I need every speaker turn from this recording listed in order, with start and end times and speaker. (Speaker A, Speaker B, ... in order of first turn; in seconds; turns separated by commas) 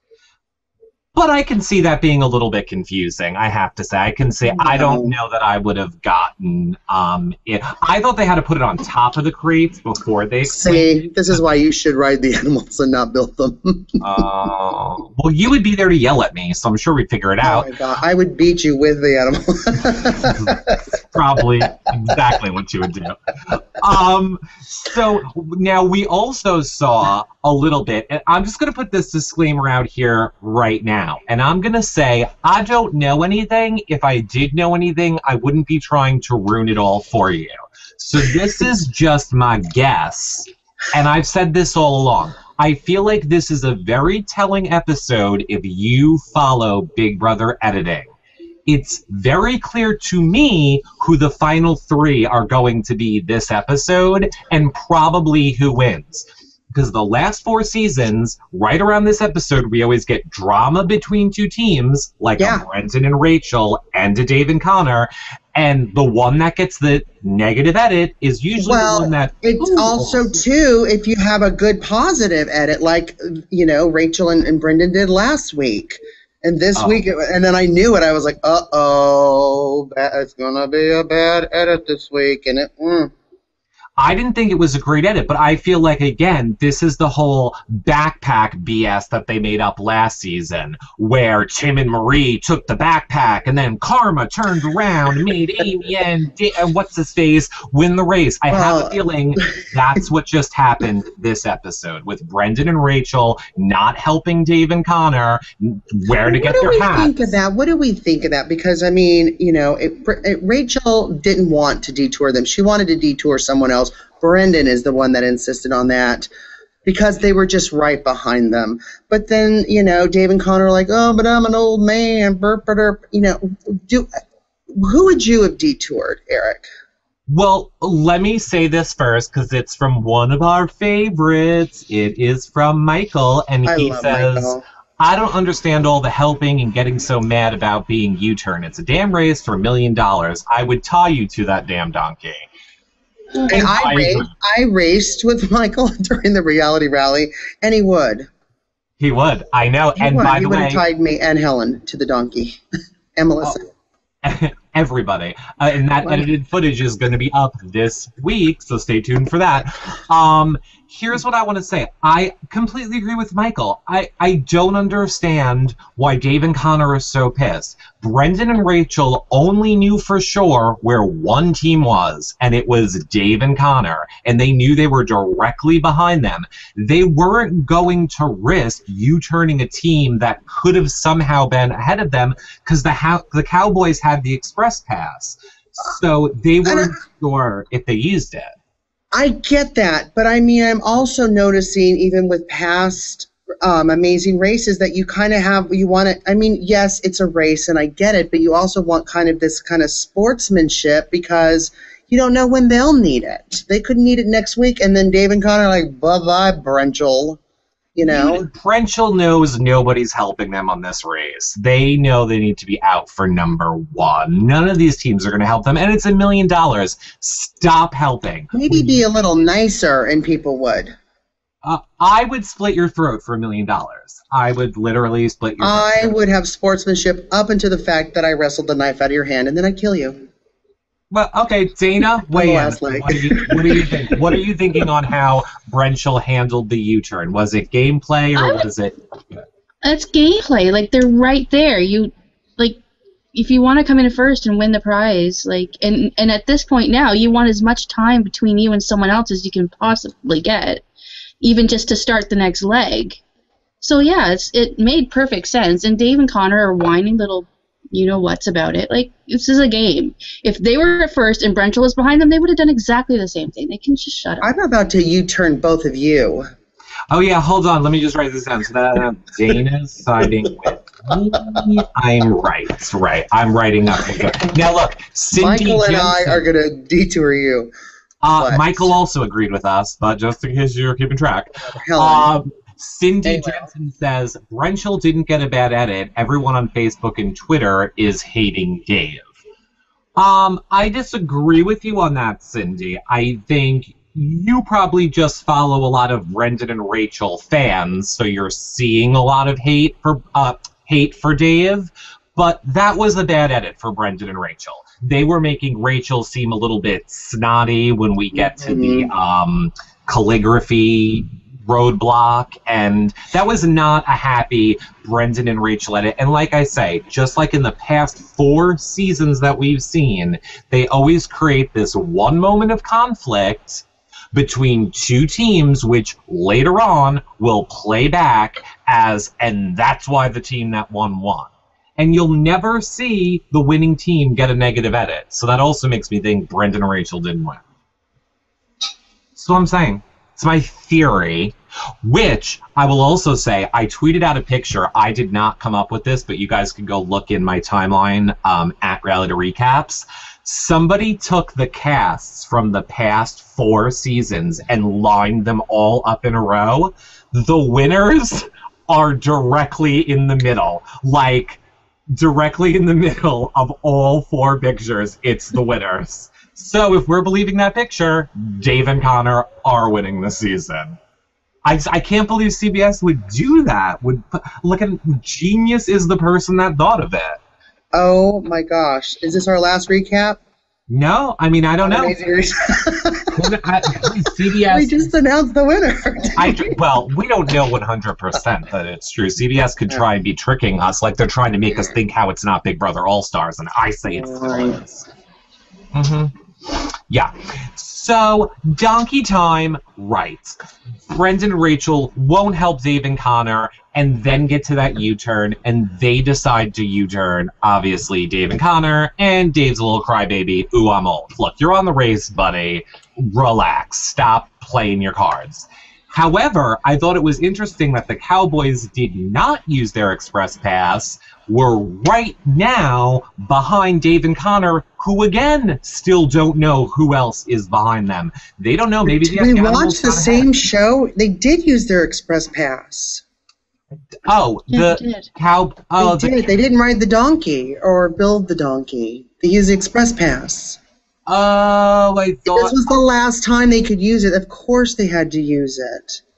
Speaker A: 1.1-11.0, Speaker B: 4.5-5.2, Speaker B: 10.4-14.3, Speaker A: 14.0-17.7, Speaker B: 17.4-20.8, Speaker A: 20.2-48.1, Speaker A: 48.7-70.3, Speaker B: 62.4-62.6, Speaker B: 68.6-83.1, Speaker A: 76.8-77.0, Speaker A: 84.0-107.3, Speaker B: 98.5-99.5, Speaker B: 106.1-116.3, Speaker B: 116.8-124.1, Speaker B: 124.7-126.7, Speaker A: 127.3-142.5, Speaker B: 133.7-134.6, Speaker B: 143.5-148.3, Speaker A: 143.5-144.3, Speaker A: 149.0-150.8, Speaker B: 150.0-152.6, Speaker B: 153.2-153.7, Speaker A: 154.2-188.5, Speaker B: 156.0-156.3, Speaker B: 186.6-186.9, Speaker B: 189.1-207.4, Speaker B: 207.9-208.5, Speaker A: 208.0-219.0, Speaker B: 218.5-220.9, Speaker A: 221.6-226.1, Speaker B: 225.6-230.3, Speaker A: 231.1-239.0, Speaker B: 232.3-234.0, Speaker C: 238.4-238.7, Speaker C: 239.8-242.8, Speaker C: 243.3-250.8, Speaker C: 251.4-253.2, Speaker C: 253.8-264.5, Speaker B: 264.4-266.5, Speaker A: 267.1-276.5, Speaker B: 275.3-277.7, Speaker A: 278.2-289.3, Speaker B: 278.4-278.9, Speaker B: 281.6-282.3, Speaker B: 283.2-283.7, Speaker A: 290.2-337.6, Speaker B: 308.4-309.1, Speaker A: 339.4-361.6, Speaker A: 362.2-371.0, Speaker A: 371.6-377.4, Speaker B: 377.9-380.4, Speaker A: 380.9-382.2, Speaker B: 381.8-383.4, Speaker A: 383.4-385.1, Speaker B: 384.7-386.8, Speaker A: 386.4-395.1, Speaker B: 394.1-394.8, Speaker A: 395.9-400.6, Speaker A: 401.1-430.5, Speaker B: 429.1-433.2, Speaker A: 434.2-436.5, Speaker C: 434.7-435.3, Speaker B: 436.0-440.8, Speaker A: 441.3-442.8, Speaker B: 442.5-446.2